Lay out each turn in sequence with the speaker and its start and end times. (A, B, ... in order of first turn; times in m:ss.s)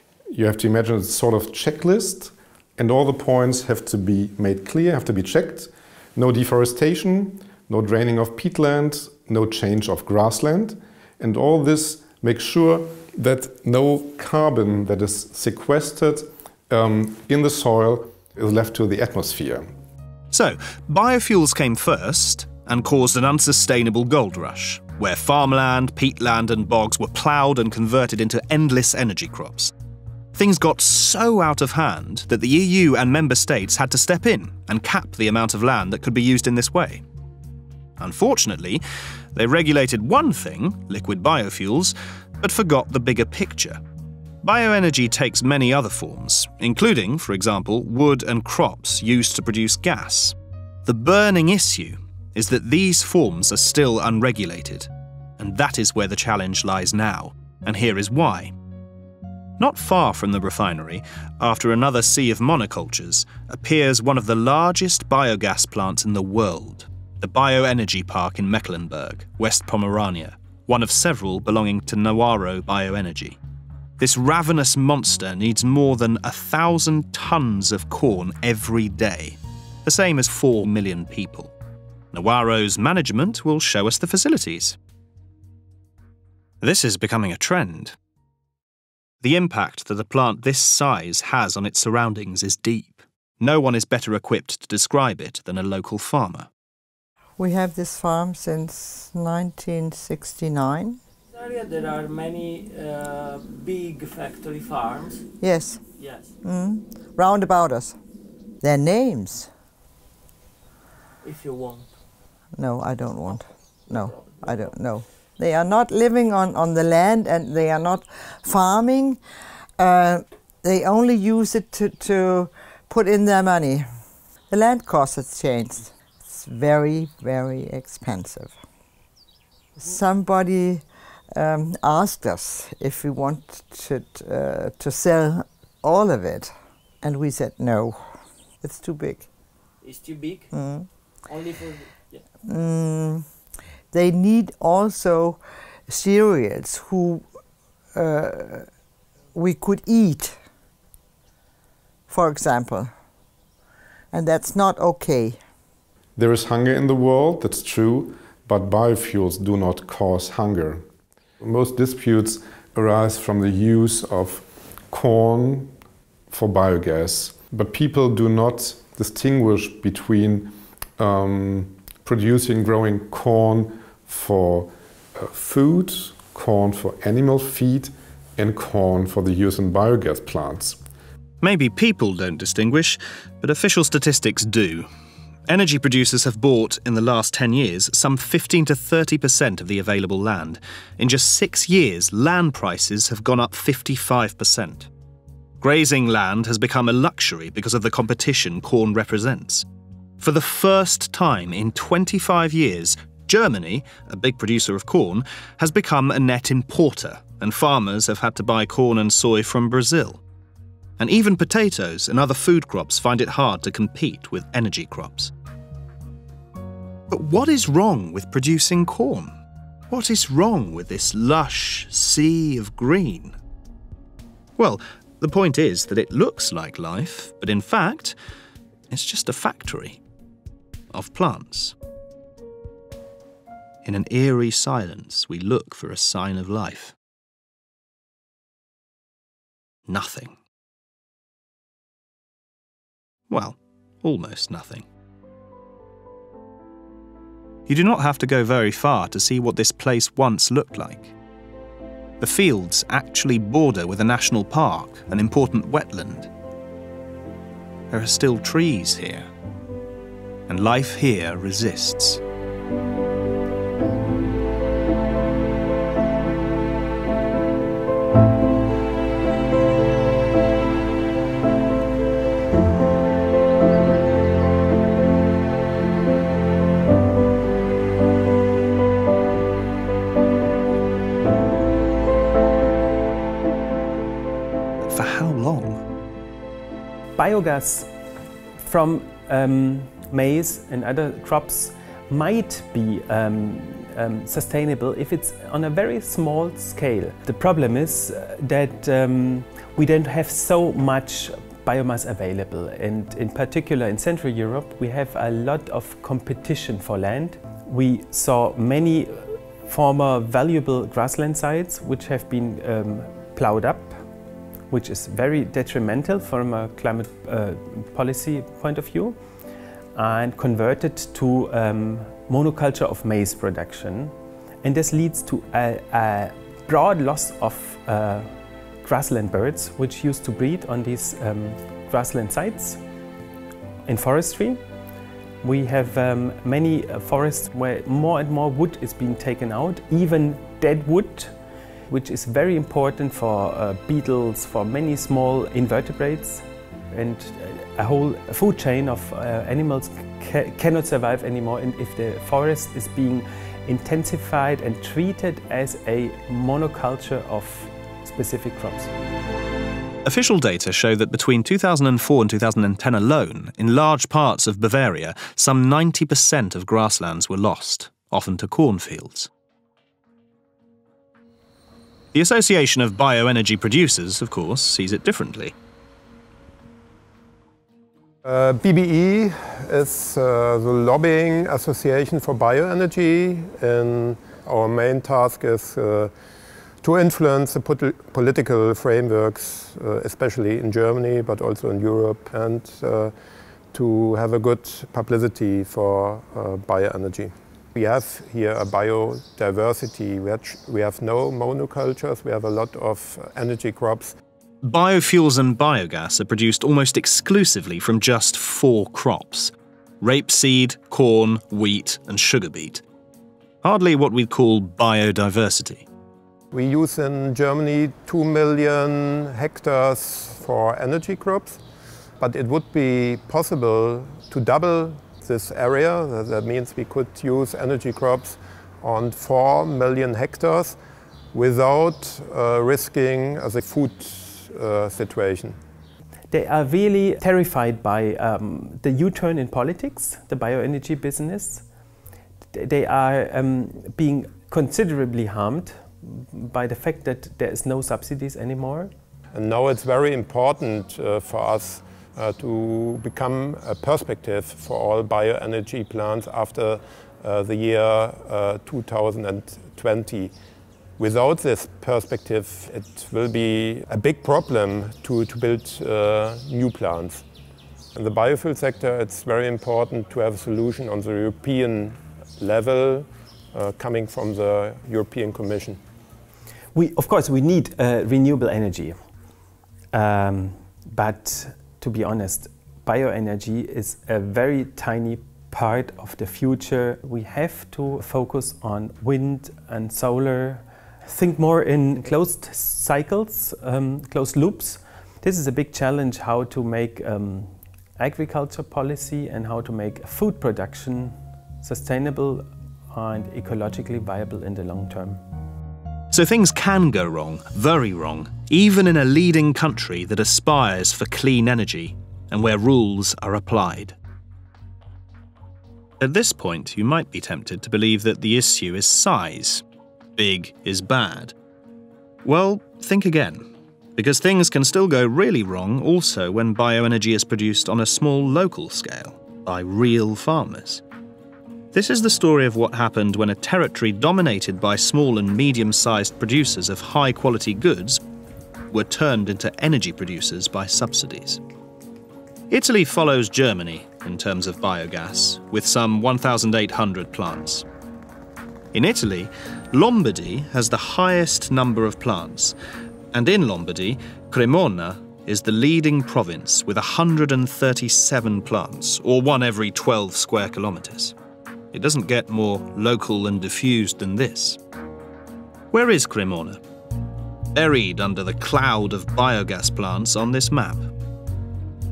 0:00.3-0:19.7 A
0:20.3-0:29.7 B
0:30.3-0:37.0 B
0:38.0-0:38.8 B
0:39.3-0:43.8 B
0:44.4-0:54.9 B
0:55.4-0:58.5 B
0:59.6-1:13.4 B
1:14.0-1:21.5 B
1:22.1-1:24.8 B
1:26.6-1:28.0 B
1:29.2-1:36.5 B
1:37.4-1:41.0 C
1:41.3-1:45.3 D
1:45.4-1:45.9 C
1:45.9-1:46.3 D
1:46.4-1:48.0 C
1:48.6-1:49.5 C
1:51.2-1:51.9 D
1:52.5-1:59.2 C
1:53.9-1:54.8 D
1:59.8-2:03.9 C
2:04.5-2:08.6 C
2:09.8-2:19.2 C
2:19.8-2:20.5 D
2:20.5-2:20.9 C
2:21.3-2:22.2 D
2:22.4-2:23.3 C
2:23.9-2:27.3 C
2:27.9-2:28.7 C
2:29.3-2:30.4 C
2:32.1-2:32.9 C
2:34.1-2:35.4 C
2:36.2-2:40.8 A
2:41.4-2:45.7 A
2:46.3-3:00.8 A
3:01.4-3:04.9 B
3:05.5-3:14.9 B
3:15.6-3:19.6 B
3:20.2-3:30.2 B
3:31.0-3:35.3 B
3:37.1-3:39.3 B
3:39.9-3:43.3 B
3:44.6-3:48.2 B
3:48.9-3:50.0 B
3:50.9-3:51.7 B
3:53.8-3:56.9 B
3:59.9-4:00.4 B
4:03.3-4:04.8 B
4:07.7-4:11.1 B
4:12.2-4:16.3 B
4:17.9-4:19.3 B
4:20.5-4:22.2 B
4:44.8-4:45.8 B
4:47.2-4:47.9 E
4:48.6-5:14.0 E
5:14.7-5:19.2 E
5:19.9-5:32.8 E
5:33.9-5:34.6 E
5:35.4-5:58.9 E
6:00.0-6:09.3 B
6:12.1-6:15.5 B
6:18.2-6:26.1 F
6:26.8-6:33.1 F
6:33.7-6:44.2 F
6:44.6-6:52.8 B
6:53.6-6:55.8 B
6:56.5-7:01.6 F
7:02.2-7:10.8 F
7:11.3-7:15.6 F
7:16.3-7:21.7 E
7:22.5-7:28.9 E
7:29.3-7:40.3 F
7:41.0-7:47.2 F
7:48.0-7:55.8 F
7:56.7-7:59.1 E
7:59.9-8:25.2 E
8:26.1-8:34.0 B
8:36.0-8:39.6 B
8:40.2-8:41.3 B
8:42.2-8:43.4 B
8:44.0-8:50.8 B
8:51.7-8:58.0 B
8:58.7-9:01.4 B
9:02.5-9:07.6 B
9:08.7-9:12.5 B
9:13.1-9:21.1 B
9:21.7-9:24.6 B
9:25.7-9:26.6 B
9:27.5-9:30.9 B